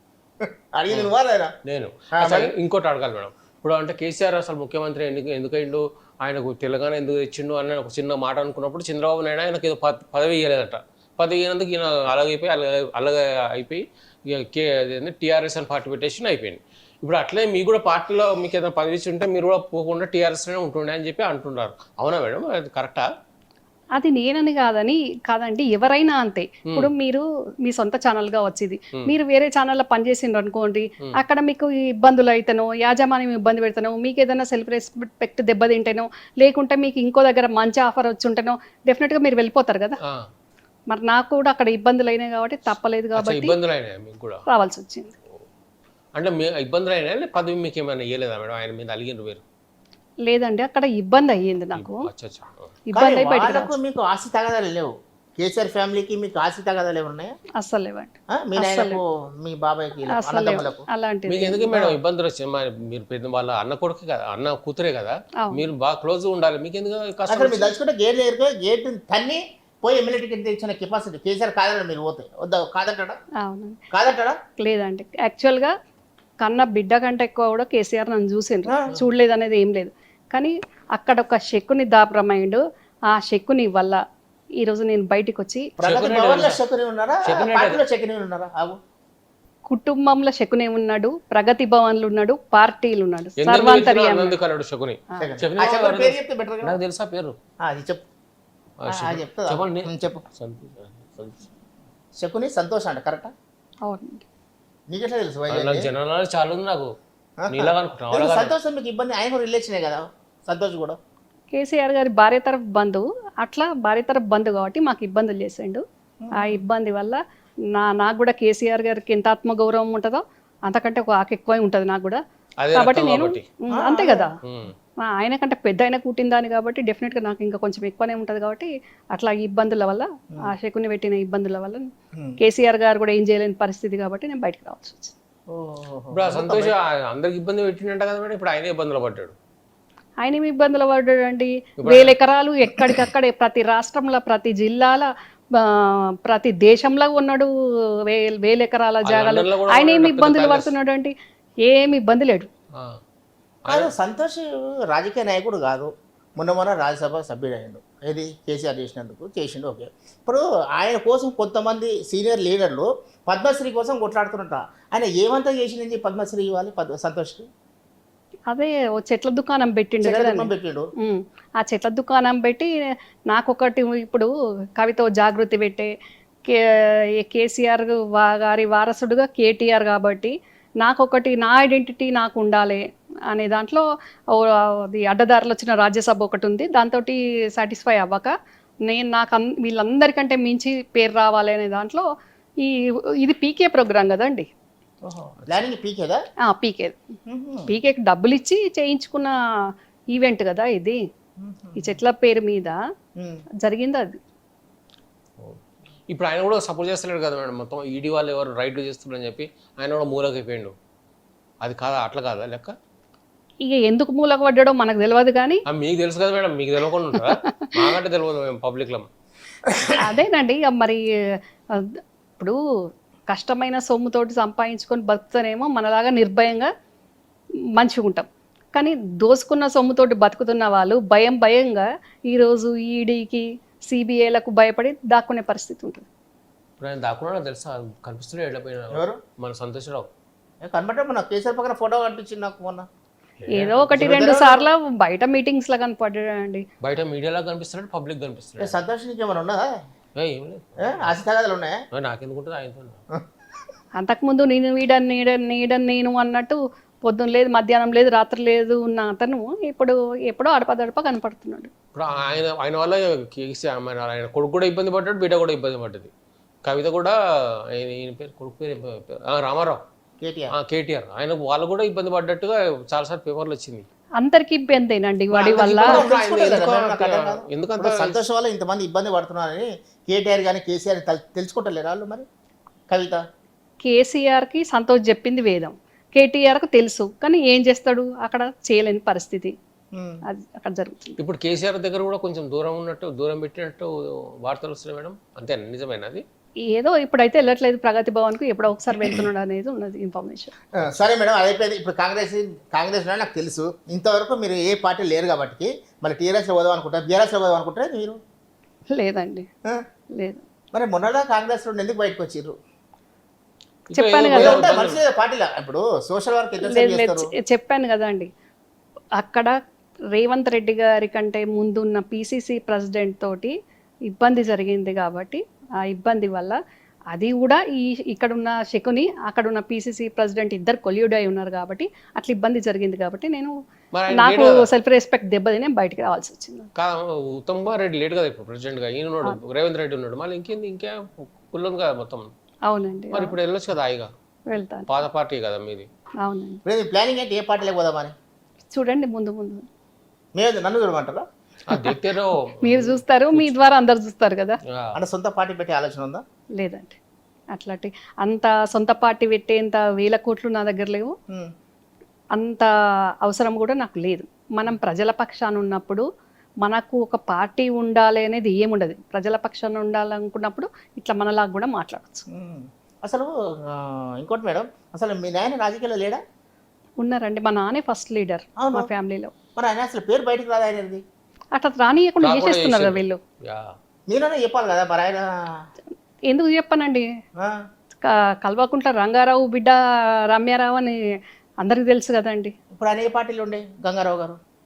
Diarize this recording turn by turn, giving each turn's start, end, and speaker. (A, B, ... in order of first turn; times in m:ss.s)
0:00.4-0:01.5 A
0:01.7-0:23.1 B
0:02.1-0:02.5 A
0:24.0-0:40.0 C
0:40.9-0:43.6 C
0:43.2-0:44.4 B
0:44.5-0:45.1 C
0:46.2-0:49.4 B
0:50.2-0:52.0 C
0:51.8-0:52.7 B
0:52.9-0:53.7 C
0:53.0-0:57.4 A
0:57.6-0:59.0 C
0:58.3-1:00.9 A
1:00.2-1:01.8 C
1:01.3-1:07.7 B
1:07.3-1:13.2 A
1:13.4-1:13.8 C
1:13.9-1:14.4 A
1:14.6-1:15.7 C
1:16.4-1:24.0 C
1:18.7-1:19.0 A
1:24.6-1:25.7 C
1:25.8-1:28.8 A
1:25.8-1:26.6 B
1:27.2-1:27.8 B
1:29.7-1:34.4 C
1:33.4-1:37.4 B
1:35.2-1:36.8 A
1:37.6-1:38.0 A
1:38.8-1:41.4 B
1:38.9-1:40.2 A
1:42.2-1:43.3 A
1:43.9-1:44.2 C
1:44.9-1:45.9 A
1:45.5-1:46.9 B
1:47.4-1:51.0 A
1:47.5-1:48.6 B
1:51.5-1:55.8 C
1:56.2-1:56.6 A
1:56.4-1:57.2 C
1:57.8-2:02.2 C
2:02.6-2:03.4 B
2:02.7-2:04.3 C
2:03.7-2:04.3 A
2:04.4-2:04.7 B
2:05.0-2:11.8 C
2:12.4-2:15.1 C
2:15.5-2:16.7 A
2:16.1-2:19.3 B
2:20.2-2:27.5 C
2:21.8-2:22.1 B
2:28.1-2:31.1 C
2:29.0-2:30.7 B
2:31.6-2:32.5 C
2:33.7-2:33.9 B
2:33.7-2:47.5 A
2:48.5-2:50.5 C
2:50.0-2:50.9 A
2:51.0-2:52.7 C
2:53.3-2:55.9 C
2:56.5-3:02.8 C
3:03.3-3:08.3 C
3:08.9-3:12.0 C
3:12.6-3:14.5 C
3:15.0-3:16.2 A
3:16.4-3:17.0 C
3:17.3-3:17.7 A
3:17.7-3:19.4 C
3:20.1-3:21.0 C
3:21.4-3:21.9 A
3:21.8-3:22.8 C
3:23.2-3:23.4 A
3:23.6-3:24.2 C
3:26.1-3:30.7 B
3:31.6-3:32.7 B
3:33.6-3:35.6 C
3:35.7-3:39.1 B
3:40.0-3:41.0 C
3:41.7-3:42.6 C
3:43.3-3:46.7 C
3:47.8-3:56.1 C
3:56.8-4:00.1 B
3:58.9-3:59.2 A
4:00.6-4:02.9 A
4:03.4-4:04.2 B
4:03.5-4:06.6 C
4:04.0-4:04.7 A
4:06.8-4:08.8 B
4:08.6-4:09.7 A
4:10.2-4:11.2 B
4:10.8-4:11.8 A
4:12.0-4:13.0 B
4:14.0-4:21.7 C
4:21.9-4:26.1 B
4:26.6-4:27.2 B
4:27.8-4:29.8 B
4:30.2-4:30.5 A
4:30.5-4:33.9 B
4:34.2-4:36.0 C
4:35.3-4:42.3 A
4:35.6-4:38.2 B
4:42.9-4:43.2 A
4:43.8-4:49.5 C
4:49.9-4:50.2 A
4:50.3-4:51.2 C
4:51.2-4:56.2 B
4:56.7-5:00.5 C
5:00.8-5:08.2 A
5:08.9-5:09.5 C
5:10.2-5:10.4 C
5:10.7-5:12.6 A
5:13.9-5:15.0 B
5:13.9-5:14.6 C
5:14.3-5:17.3 A
5:16.6-5:18.3 C
5:19.2-5:19.5 C
5:20.2-5:23.5 C
5:24.1-5:26.6 C
5:27.1-5:33.5 C
5:34.0-5:34.6 B
5:34.1-5:36.7 C
5:36.8-5:42.3 B
5:42.7-5:43.4 C
5:43.1-5:44.1 B
5:44.5-5:45.0 C
5:44.9-5:45.9 B
5:46.2-5:46.6 C
5:46.7-5:48.1 A
5:48.7-5:49.6 C
5:50.4-5:51.2 A
5:51.7-5:53.5 B
5:52.6-5:54.6 C
5:55.0-5:56.2 A
5:56.6-5:57.0 C
5:57.5-6:01.1 C
6:02.3-6:02.7 C
6:03.2-6:06.0 C
6:06.6-6:12.2 C
6:12.3-6:16.2 A
6:17.0-6:19.3 C
6:18.6-6:18.9 A
6:19.6-6:21.0 A
6:21.5-6:23.2 C
6:22.2-6:23.7 B
6:24.1-6:25.6 A
6:26.3-6:27.1 C
6:28.0-6:31.0 C
6:31.6-6:32.5 C
6:32.8-6:34.4 A